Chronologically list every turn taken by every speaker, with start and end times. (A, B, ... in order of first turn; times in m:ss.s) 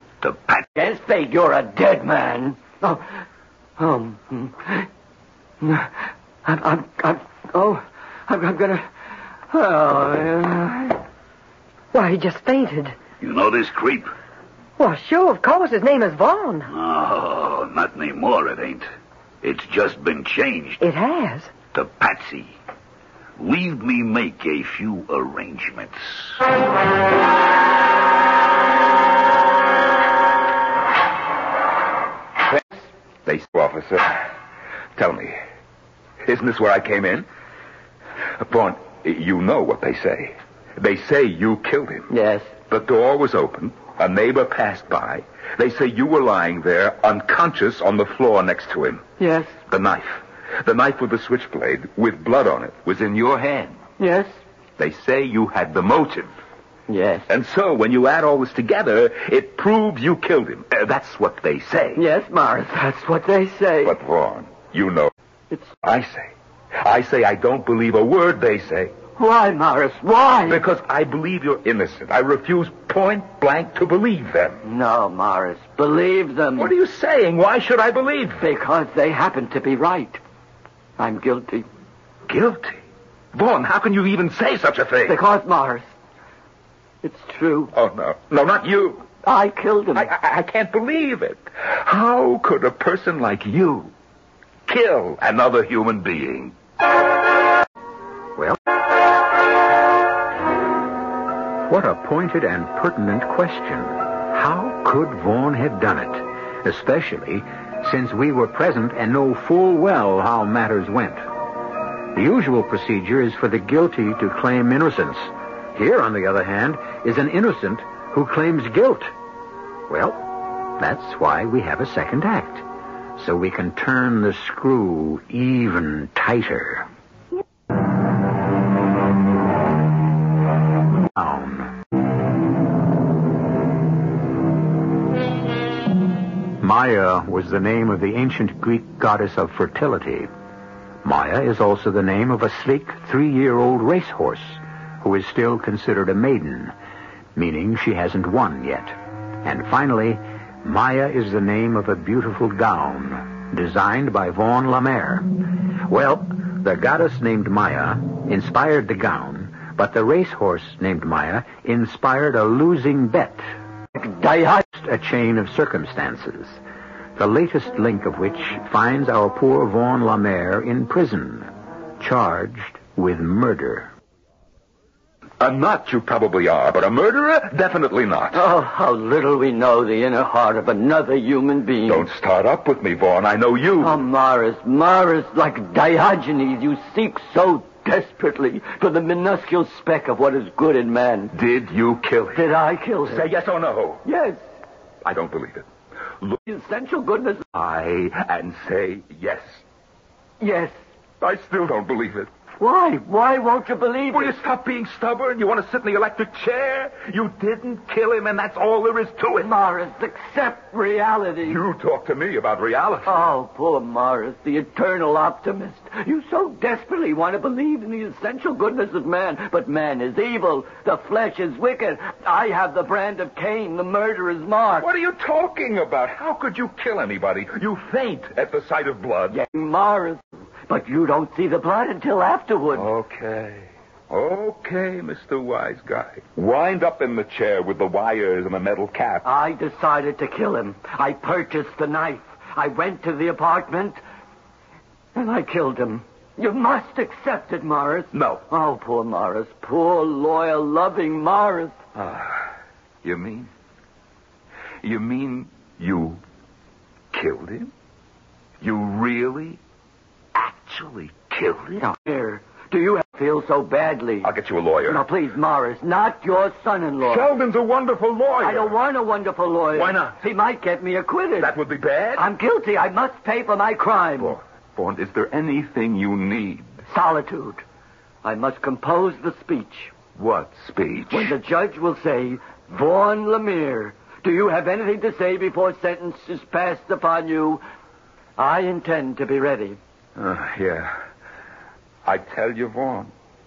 0:00.2-0:00.6 A
0:00.8-0:03.0 B
0:03.8-0:04.9 B
0:05.6-0:08.9 B
0:09.5-0:11.0 B
0:11.9-0:13.0 C
0:13.2-0:14.1 A
0:14.8-0:16.7 C
0:16.7-0:18.8 A
0:19.4-0:20.8 A
0:20.8-0:21.5 C
0:21.7-0:22.5 A
0:23.4-0:26.4 A
0:33.2-0:34.2 D
0:35.0-0:35.4 D
0:36.2-0:37.2 D
0:38.4-0:42.1 D
0:42.1-0:42.5 B
0:42.6-0:49.0 D
0:49.2-0:49.6 B
0:49.6-0:53.8 D
0:54.0-0:54.4 B
0:54.8-0:56.3 D
0:56.9-0:57.2 B
0:57.3-1:02.0 D
1:02.0-1:04.0 B
1:03.8-1:05.1 D
1:05.8-1:08.9 D
1:09.2-1:10.6 B
1:10.4-1:14.6 D
1:14.6-1:16.7 B
1:16.6-1:18.4 D
1:18.4-1:20.2 B
1:21.0-1:21.7 B
1:22.3-1:22.8 D
1:23.3-1:25.2 D
1:25.0-1:25.9 B
1:27.0-1:27.7 B
1:27.7-1:29.1 D
1:29.2-1:30.1 B
1:29.9-1:33.9 D
1:34.7-1:36.5 D
1:41.6-1:51.2 E
1:52.1-1:59.1 E
1:59.9-2:02.6 E
2:03.2-2:06.9 E
2:11.0-2:11.7 E
2:16.6-2:20.3 E
2:21.0-2:26.7 E
2:27.3-2:35.3 E
2:35.8-2:43.4 E
2:43.9-2:44.6 B
2:44.7-2:46.6 E
2:47.2-2:53.9 E
2:55.4-2:58.4 D
2:58.3-3:02.1 B
3:01.8-3:04.0 D
3:03.8-3:11.3 B
3:11.3-3:12.4 D
3:12.3-3:13.2 B
3:13.0-3:14.0 D
3:14.0-3:14.4 B
3:15.0-3:15.6 D
3:16.4-3:17.4 B
3:17.5-3:19.6 D
3:20.4-3:20.7 B
3:21.2-3:22.3 D
3:22.6-3:24.3 B
3:24.1-3:29.5 D
3:29.4-3:31.6 B
3:31.4-3:33.3 D
3:33.0-3:44.9 B
3:44.8-3:49.4 D
3:49.3-3:52.9 B
3:52.7-3:59.2 D
3:59.2-4:04.0 B
4:05.1-4:11.7 B
4:08.1-4:08.4 D
4:12.0-4:12.4 D
4:13.0-4:13.5 D
4:14.8-4:16.2 D
4:17.1-4:17.7 D
4:18.6-4:19.6 D
4:20.3-4:21.8 D
4:21.8-4:24.3 B
4:24.2-4:25.0 D
4:24.8-4:27.3 B
4:27.0-4:28.8 D
4:28.4-4:31.5 B
4:29.7-4:30.2 D
4:31.4-4:32.3 D
4:32.2-4:34.4 B
4:34.2-4:36.8 D
4:36.9-4:37.6 B
4:38.2-4:39.9 B
4:40.2-4:41.3 D
4:41.1-4:47.6 B
4:48.4-4:49.8 B
4:50.2-4:51.0 D
4:52.0-4:53.1 D